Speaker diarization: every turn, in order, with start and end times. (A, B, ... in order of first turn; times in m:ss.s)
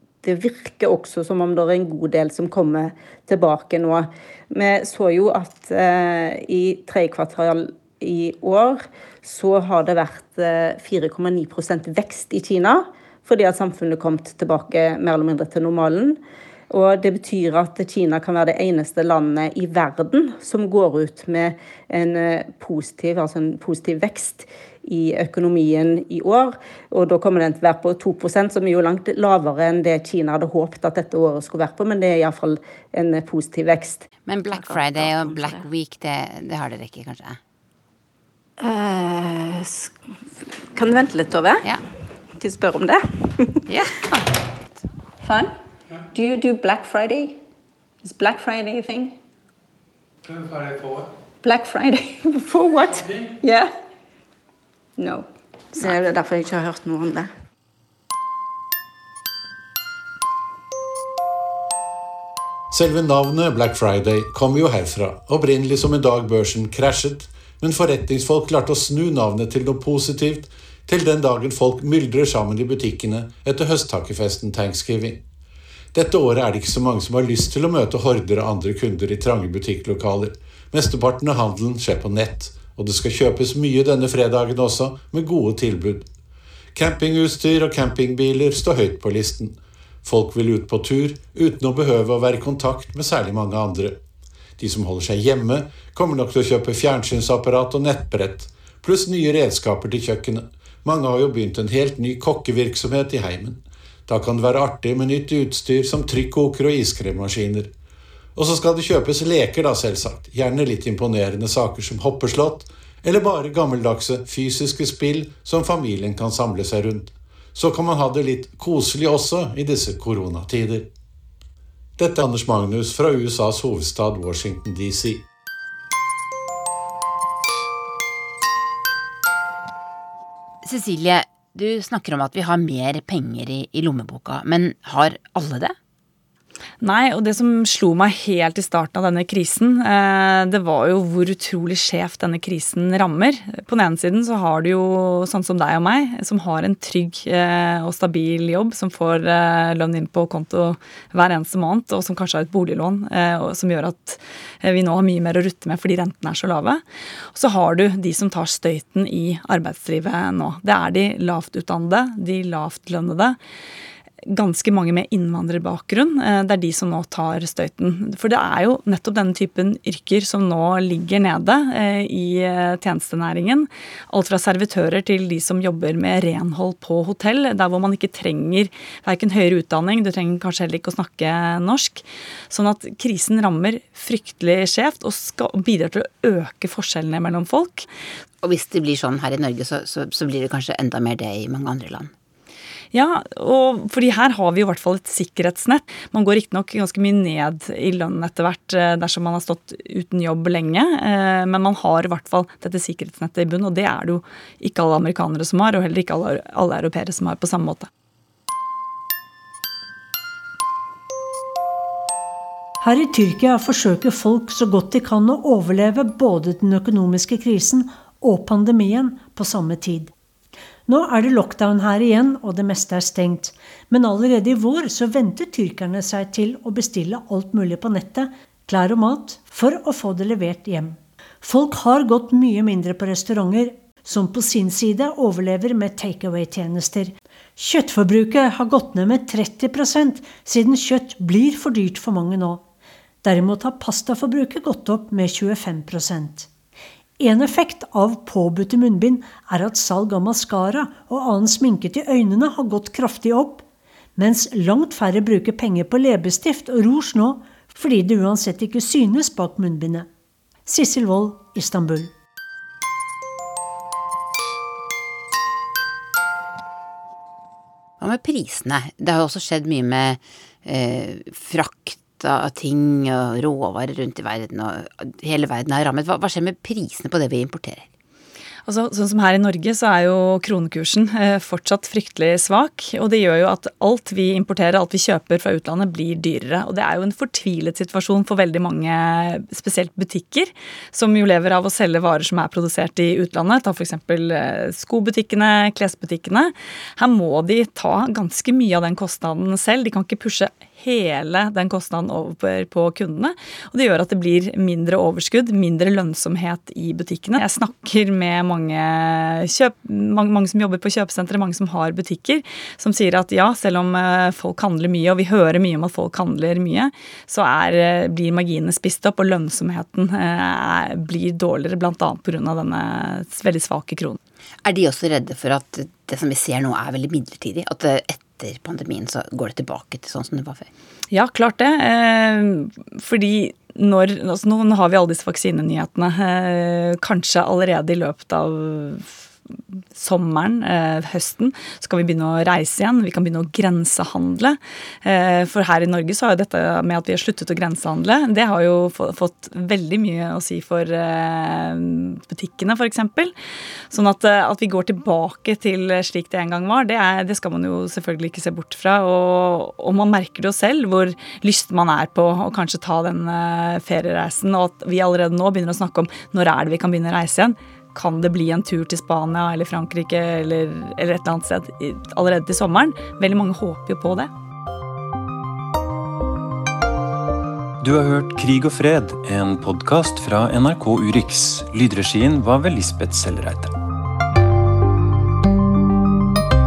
0:00.2-0:16.2 A
0:16.7-0:34.1 A
0:34.3-0:37.4 B
0:38.6-0:39.9 A
0:40.8-0:41.6 A
0:42.4-0:43.5 A
0:43.7-0:44.3 B
0:46.1-0:47.4 A
0:48.0-0:49.1 A
0:51.4-0:53.7 A
0:55.0-0:57.3 A
1:02.7-1:15.2 C
1:15.9-1:26.1 C
1:26.8-1:34.0 C
1:34.6-1:47.7 C
1:48.4-2:00.9 C
2:02.0-2:05.2 C
2:10.6-2:15.8 B
2:16.8-2:36.8 D
2:37.3-2:43.4 D
2:44.3-3:07.9 D
3:08.4-3:12.1 B
3:12.9-3:27.9 D
3:32.8-3:40.1 E
3:40.9-4:02.6 E
4:03.2-4:06.5 E
4:07.2-4:13.6 E
4:14.2-4:20.1 E
4:20.7-4:22.1 E
4:28.0-4:37.9 B
4:38.7-5:24.2 D
5:24.6-5:30.7 B
5:31.1-5:39.2 D
5:40.0-5:53.3 D
5:53.9-6:14.3 D
6:17.8-6:23.7 F